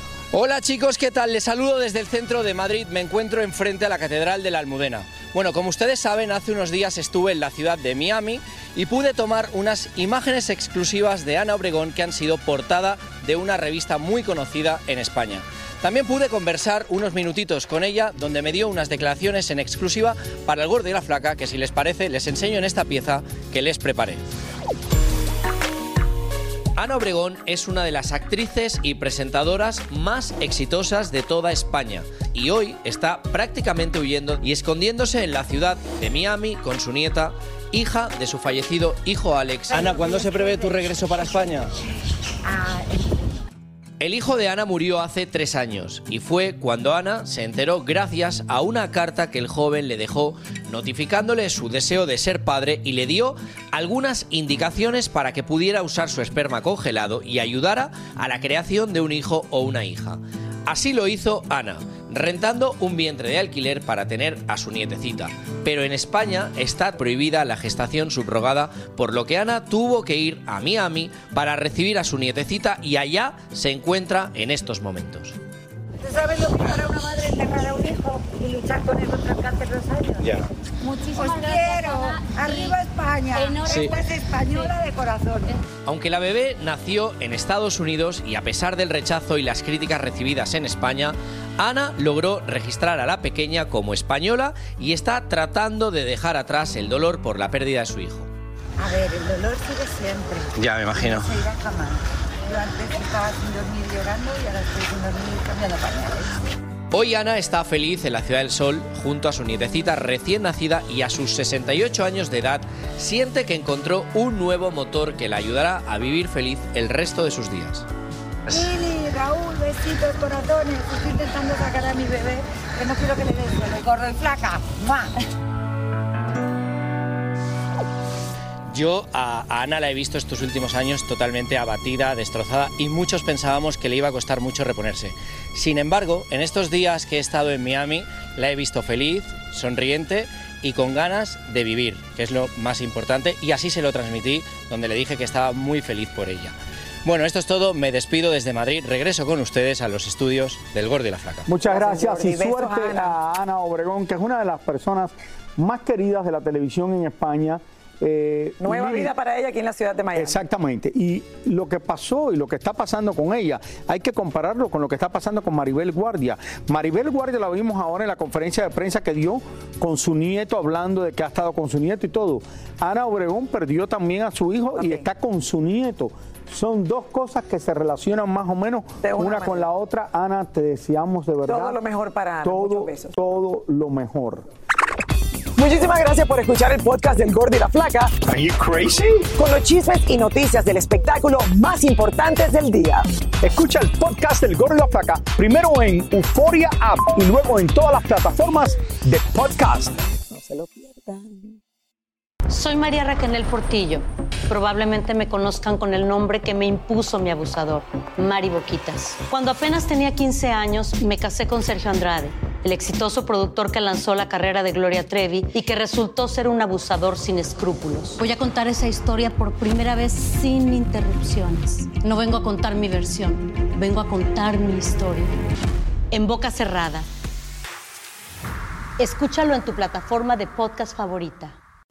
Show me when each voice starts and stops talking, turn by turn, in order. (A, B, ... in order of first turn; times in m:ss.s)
0:00.3-0:24.2 A
0:26.8-0:41.7 A
0:39.7-0:41.5 B
0:42.5-0:43.3 B
0:44.0-1:15.4 A
1:16.0-1:25.6 B
1:25.8-1:38.3 A
1:38.8-1:46.3 B
1:40.6-1:41.3 A
1:46.9-1:57.8 A
1:58.5-2:05.1 B
2:08.7-2:31.5 A
2:31.5-2:39.1 C
2:31.6-2:33.1 D
2:38.6-2:40.4 D
2:40.1-3:01.8 C
2:54.8-2:55.0 D
2:59.0-2:59.7 D
3:01.5-3:03.1 D
3:02.4-3:04.5 C
3:05.6-3:08.2 D
3:08.2-3:09.3 C
3:09.4-3:13.0 D
3:13.4-3:19.9 C
3:20.3-3:21.6 D
3:22.5-3:45.3 E
3:46.1-3:47.1 E
3:49.0-3:51.6 E